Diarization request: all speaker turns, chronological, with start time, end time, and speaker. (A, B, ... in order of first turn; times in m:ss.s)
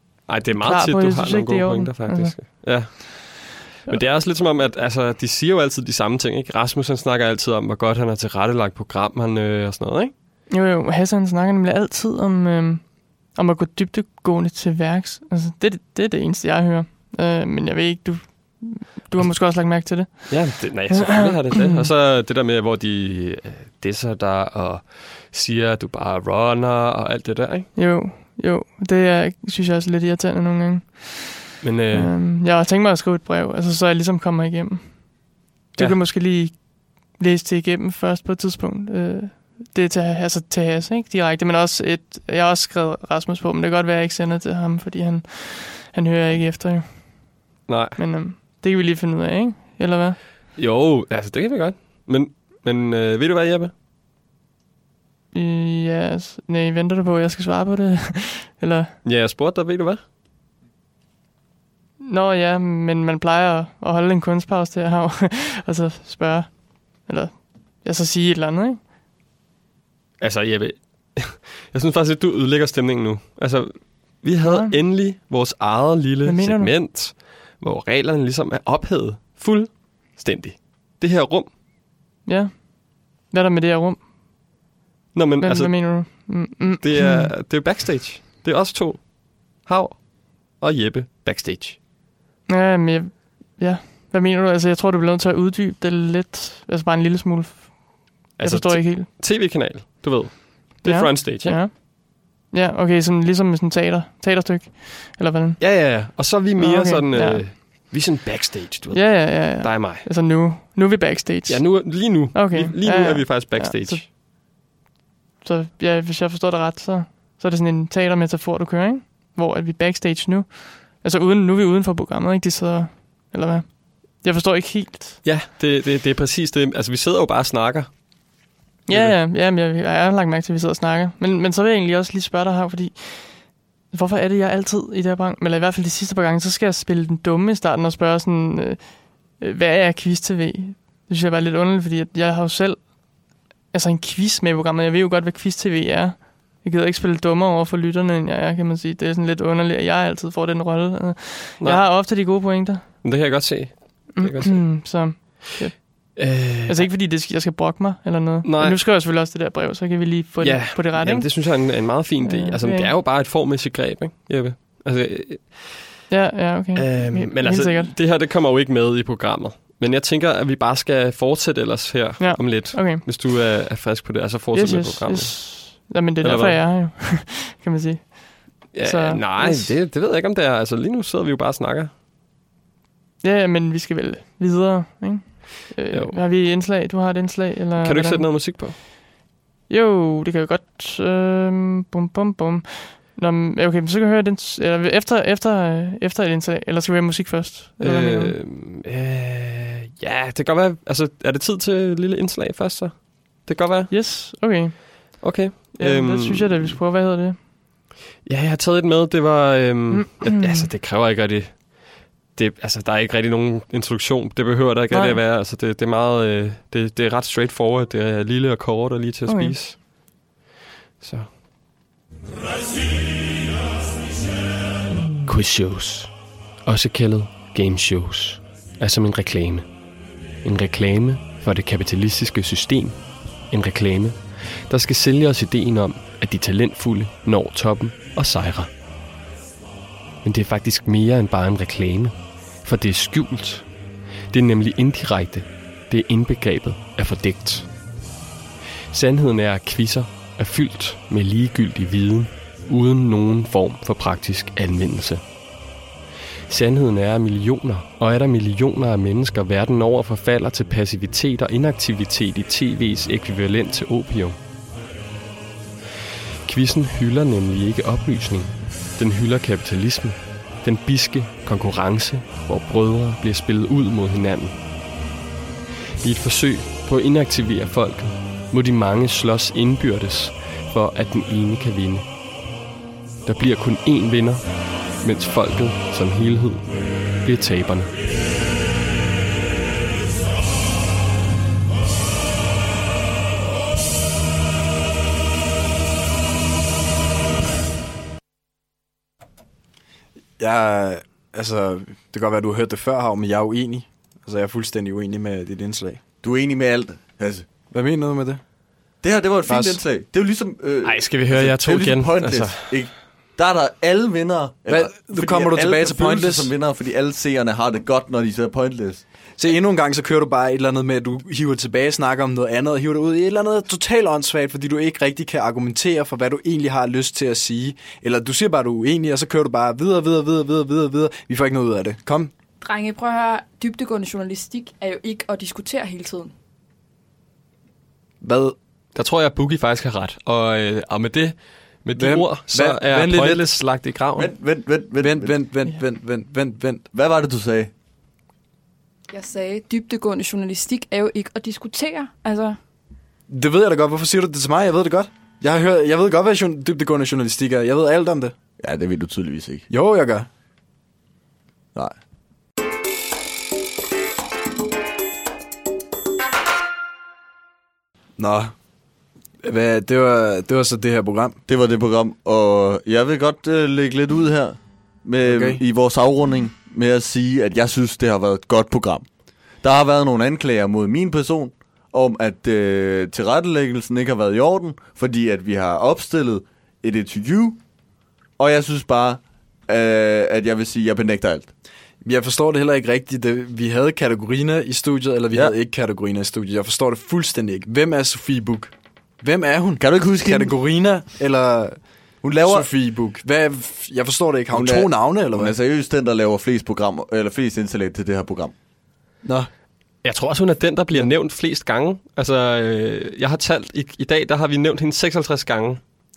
0:00.3-0:10.1 A
0:00.6-0:02.4 B
0:10.5-0:21.9 B
0:20.3-0:27.7 A
0:27.8-0:35.0 B
0:31.6-0:32.1 A
0:35.8-0:36.6 B
0:37.2-0:46.9 B
0:47.7-0:48.0 A
0:48.0-0:50.2 B
0:50.6-0:53.7 A
0:55.3-0:58.9 B
0:59.0-1:00.0 A
1:02.0-1:06.5 B
1:07.1-1:08.8 B
1:10.2-1:21.5 A
1:14.4-1:14.8 B
1:16.2-1:16.7 B
1:22.3-1:22.6 B
1:23.3-1:24.0 B
1:25.1-1:26.2 A
1:25.4-1:27.3 B
1:26.8-1:29.0 A
1:29.6-1:30.0 A
1:30.6-1:31.8 A
1:32.5-1:37.7 B
1:38.4-1:39.1 B
1:38.4-1:41.6 A
1:40.8-1:41.8 B
1:42.5-1:45.6 B
1:45.6-1:50.1 A
1:46.6-1:47.4 B
1:48.9-1:54.0 B
1:51.5-1:54.1 A
1:55.4-2:05.2 B
2:05.2-2:07.9 A
2:08.9-2:22.8 B
2:08.9-2:09.2 A
2:23.7-2:32.8 B
2:33.0-2:35.3 A
2:34.2-2:36.2 B
2:36.2-2:36.9 A
2:36.7-2:41.4 B
2:38.4-2:38.8 A
2:40.4-2:45.8 A
2:42.2-2:42.9 B
2:46.1-2:47.9 B
2:46.8-2:55.5 A
2:52.2-2:53.0 B
2:54.6-2:58.2 B
2:56.2-2:56.6 A
2:58.7-3:01.9 A
2:58.8-2:59.7 B
3:03.2-3:08.2 B
3:05.9-3:06.2 A
3:07.8-3:08.8 A
3:09.7-3:18.4 B
3:17.8-3:23.9 A
3:23.9-3:25.2 B
3:25.2-3:26.8 A
3:25.8-3:27.4 B
3:28.3-3:31.6 A
3:29.9-3:30.7 B
3:32.4-3:39.8 A
3:34.9-3:35.2 B
3:39.3-3:39.6 B
3:41.0-3:41.3 A
3:45.2-3:46.1 A
3:46.7-3:49.6 A
3:50.4-3:53.0 A
3:53.5-3:58.7 A
4:00.2-4:03.7 A
4:04.3-4:07.7 A
4:08.9-4:15.2 A
4:16.5-4:24.4 A
4:26.5-4:34.6 A
4:36.0-4:42.0 A
4:43.2-4:44.4 A
4:45.0-4:46.7 A
4:47.2-4:47.9 A
5:00.4-5:06.0 C
5:06.2-5:07.5 D
5:07.7-5:08.4 C
5:09.0-5:19.0 D
5:09.5-5:09.8 C
5:10.8-5:12.7 A
5:14.7-5:16.5 C
5:19.4-5:32.3 C
5:32.6-5:36.3 E
5:38.2-5:38.6 C
5:39.0-5:44.3 A
5:42.0-5:43.4 C
5:44.2-5:45.4 D
5:45.0-5:46.8 C
5:46.9-5:47.7 D
5:49.1-5:52.6 E
5:53.3-5:58.4 C
5:58.6-5:59.7 D
5:59.7-6:00.3 C
6:08.2-6:08.5 C
6:09.4-6:11.4 C
6:11.5-6:19.1 D
6:15.2-6:15.6 C
6:19.6-6:27.6 D
6:28.4-6:31.5 D
6:32.0-6:41.8 C
6:39.8-6:40.5 D
6:42.2-6:42.7 D
6:42.4-6:45.5 C
6:44.5-6:48.5 D
6:49.2-6:49.5 C
6:50.0-6:55.8 A